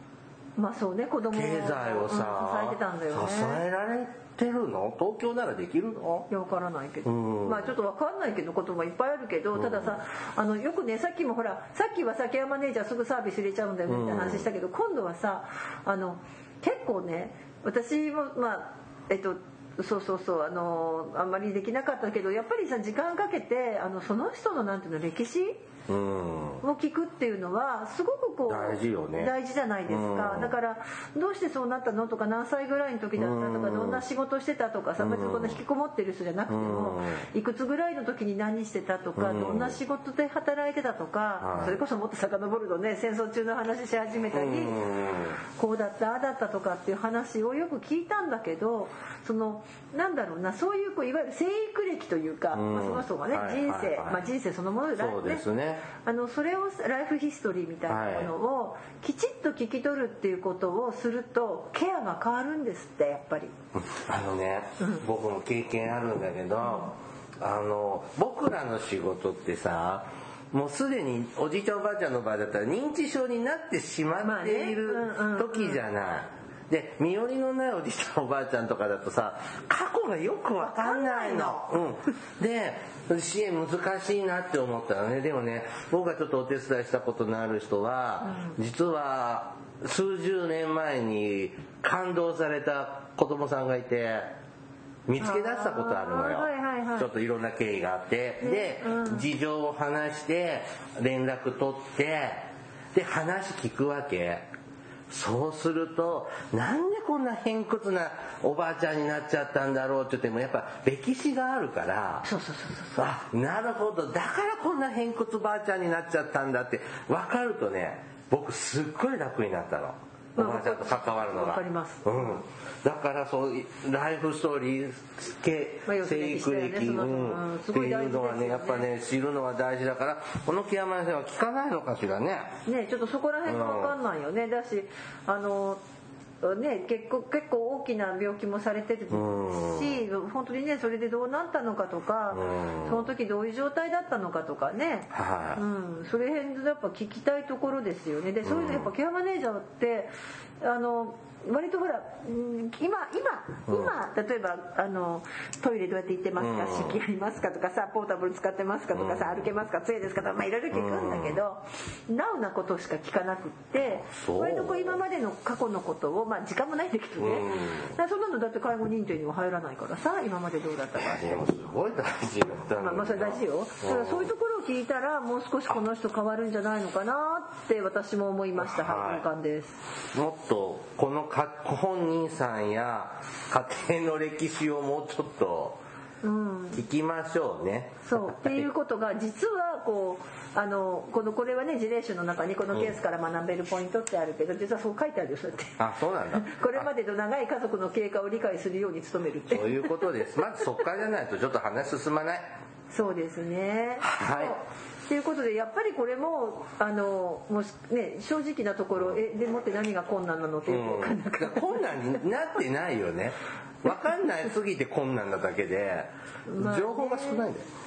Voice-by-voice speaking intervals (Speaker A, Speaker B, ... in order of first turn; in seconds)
Speaker A: 0.6-3.6, 6.3-25.6, 26.6-44.8, 45.5-55.5, 56.0-63.5, 74.2-75.8, 80.6-81.7, 88.2-88.6, 95.2-97.1, 98.4-99.3, 112.2-113.1, 120.4-122.4, 125.9-128.8, 132.7-135.8, 136.4-171.5, 172.8-179.8, 186.2-186.8, 188.1-195.8, 196.3-200.2, 202.9-212.0, 216.5-217.4
Speaker B: 1.3-6.3, 7.0-7.7, 9.6-9.9, 13.9-14.5, 25.9-26.6, 28.5-29.3, 29.9-30.5, 33.2-34.0, 35.0-35.6, 36.5-37.2, 39.2-39.8, 41.4-41.8, 44.3-45.4, 52.5-54.2, 55.0-55.9, 57.9-58.3, 63.8-94.3, 95.1-104.5, 105.1-112.3, 113.0-132.6, 133.5-133.9, 139.1-140.0, 142.3-143.1, 145.1-145.6, 148.4-148.9, 153.7-153.9, 156.4-157.0, 158.9-159.5, 160.7-161.4, 163.8-165.0, 167.2-167.9, 171.0-174.3, 178.6-179.3, 180.1-185.8, 186.7-188.7, 195.8-196.9, 199.5-202.5, 204.0-204.6, 210.7-217.7